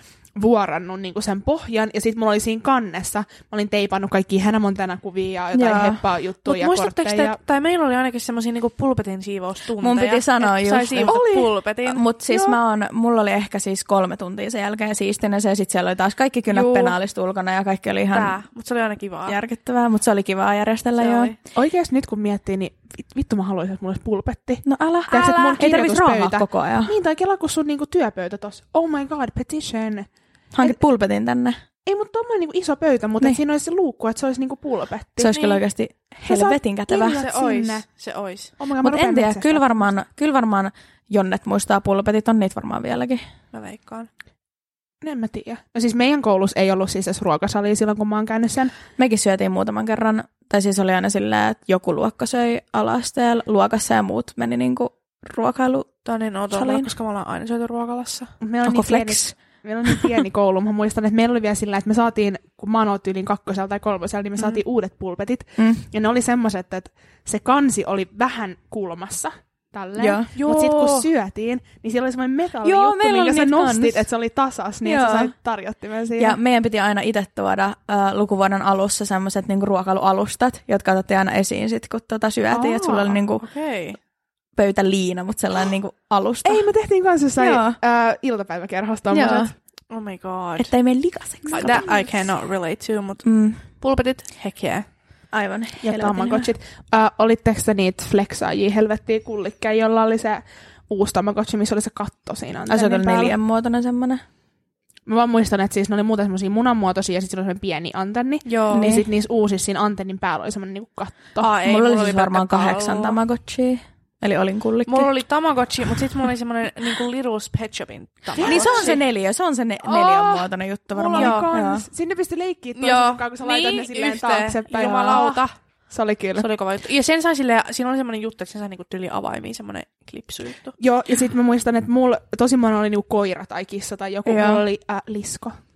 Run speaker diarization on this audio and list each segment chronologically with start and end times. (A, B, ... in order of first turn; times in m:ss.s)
0:00.4-0:07.4 A
0:05.5-0:06.0 B
0:06.4-0:12.6 C
0:09.8-0:11.2 B
0:11.0-0:11.5 A
0:11.8-0:18.4 B
0:16.5-0:16.9 C
0:18.1-0:19.4 C
0:19.2-0:21.3 B
0:21.0-0:21.4 C
0:21.5-0:30.1 A
0:24.6-0:26.9 B
0:30.5-0:31.6 B
0:31.8-0:35.4 A
0:35.2-0:37.2 B
0:35.4-0:35.6 C
0:36.2-0:37.8 A
0:37.1-0:38.5 C
0:38.6-0:39.9 A
0:38.8-0:43.2 B
0:43.5-0:44.1 C
0:45.0-0:48.7 A
0:49.0-0:55.9 B
0:56.0-0:58.3 C
0:56.5-0:56.9 B
0:58.4-1:16.4 A
0:58.6-1:00.1 B
1:05.6-1:05.8 B
1:10.0-1:10.3 B
1:10.4-1:11.1 C
1:12.6-1:14.0 B
1:14.8-1:15.3 B
1:16.2-1:23.5 B
1:22.5-1:23.1 A
1:23.4-1:24.0 C
1:24.6-1:26.6 B
1:26.4-1:29.5 A
1:27.4-1:27.8 B
1:29.1-1:29.5 B
1:29.9-1:30.7 C
1:30.6-1:31.9 B
1:31.5-1:34.8 C
1:31.6-1:32.0 A
1:33.2-1:33.6 B
1:35.3-1:36.5 B
1:35.8-1:43.4 A
1:42.7-1:44.2 B
1:45.0-1:51.5 A
1:48.4-1:48.9 C
1:48.7-1:49.0 B
1:51.4-1:53.2 C
1:51.6-1:55.1 B
1:54.9-1:59.0 C
1:58.4-1:59.0 A
1:58.4-2:01.8 B
1:59.8-2:06.5 A
2:01.1-2:01.5 C
2:02.8-2:05.5 C
2:06.4-2:10.8 C
2:10.8-2:15.6 A
2:14.2-2:14.6 B